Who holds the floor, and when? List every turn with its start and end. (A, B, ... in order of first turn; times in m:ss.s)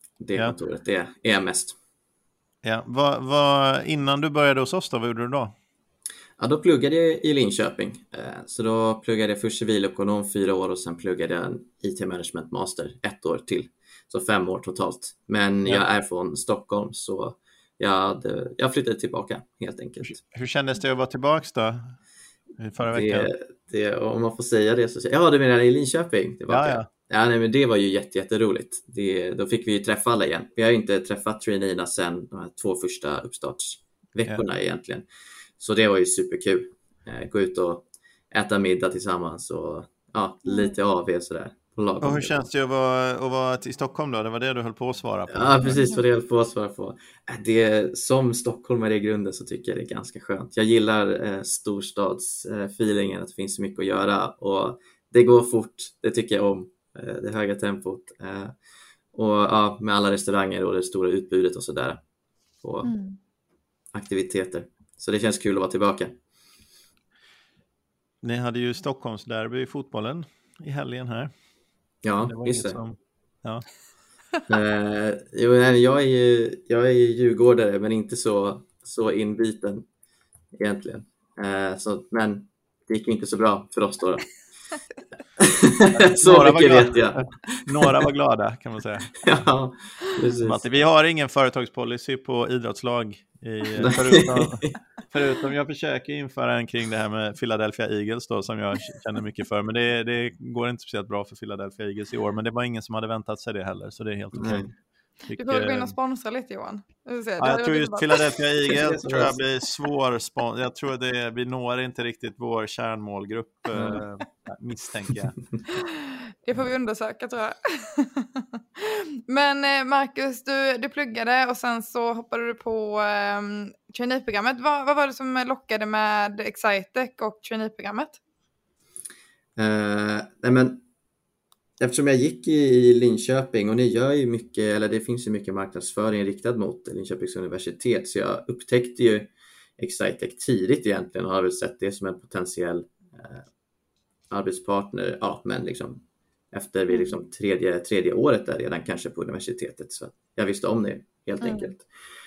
0:00.2-0:01.8 A
0:02.6-0:05.5 B
0:06.4-0:20.2 A
0:20.0-0:22.0 B
0:22.6-0:23.3 B
0:22.9-0:35.1 A
0:26.5-0:26.9 B
0:35.6-0:42.4 A
0:40.4-0:40.8 C
0:42.0-0:45.6 B
0:45.3-0:58.5 A
0:45.6-0:46.0 C
0:59.1-1:02.0 A
1:02.6-1:02.9 A
1:02.8-1:03.2 C
1:03.9-1:06.2 A
1:08.2-1:11.3 B
1:12.0-1:12.8 A
1:12.3-1:13.6 B
1:14.5-1:19.9 A
1:20.6-1:24.4 A
1:25.4-1:28.1 A
1:25.9-1:29.2 B
1:29.2-1:30.6 A
1:30.4-1:44.7 B
1:33.8-1:34.8 A
1:44.3-1:44.7 A
1:45.3-1:45.9 B
1:45.4-1:48.1 C
1:47.4-1:55.4 B
1:48.7-1:49.4 A
1:53.7-1:54.0 A
1:55.7-2:08.2 C
2:09.6-2:10.8 A
2:11.8-2:23.4 A
2:24.3-2:31.9 A
2:31.4-2:31.7 C